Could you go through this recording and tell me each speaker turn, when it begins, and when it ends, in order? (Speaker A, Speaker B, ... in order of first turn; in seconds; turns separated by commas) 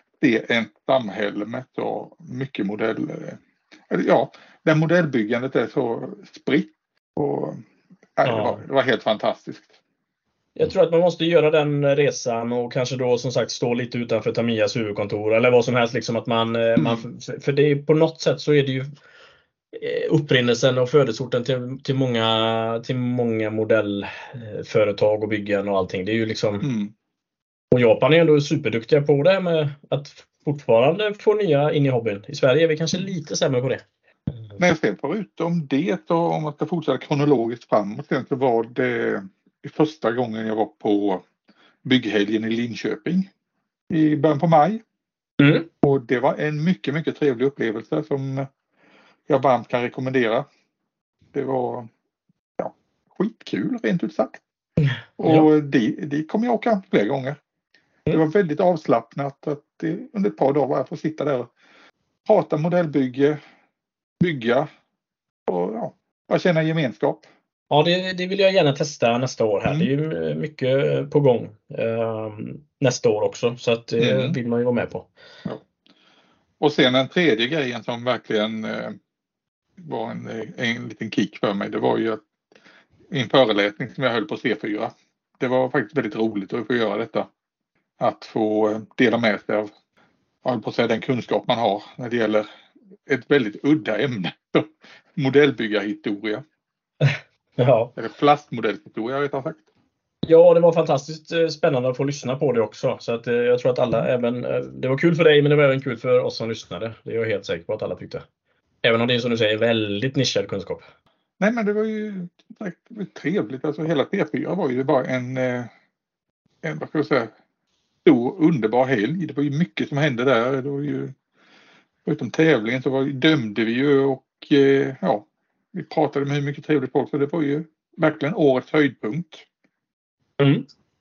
Speaker A: 0.2-3.4, Speaker A: 3.9-7.6, Speaker A: 8.2-9.7, Speaker B: 8.2-8.6, Speaker B: 10.6-18.9, Speaker A: 16.8-17.0, Speaker B: 19.7-26.7, Speaker A: 26.6-26.9, Speaker B: 27.7-33.8, Speaker A: 34.6-41.2, Speaker A: 41.8-43.3, Speaker A: 43.9-44.8, Speaker B: 45.4-45.7, Speaker A: 45.8-48.5, Speaker A: 49.3-50.5, Speaker A: 51.3-51.9, Speaker A: 52.6-54.4, Speaker A: 55.2-57.4, Speaker A: 58.1-61.5, Speaker A: 62.2-63.4, Speaker A: 64.2-64.7, Speaker A: 65.5-67.3, Speaker B: 67.7-75.1, Speaker A: 74.0-74.4, Speaker A: 76.6-79.0, Speaker A: 79.8-82.2, Speaker A: 83.1-87.3, Speaker A: 88.0-89.7, Speaker A: 90.4-92.5, Speaker A: 93.1-96.4, Speaker B: 97.0-97.9, Speaker A: 98.0-99.6, Speaker B: 100.2-108.2, Speaker B: 108.8-110.8, Speaker A: 111.4-115.7, Speaker A: 116.6-117.3, Speaker A: 118.0-121.1, Speaker A: 122.0-129.4, Speaker B: 130.4-130.7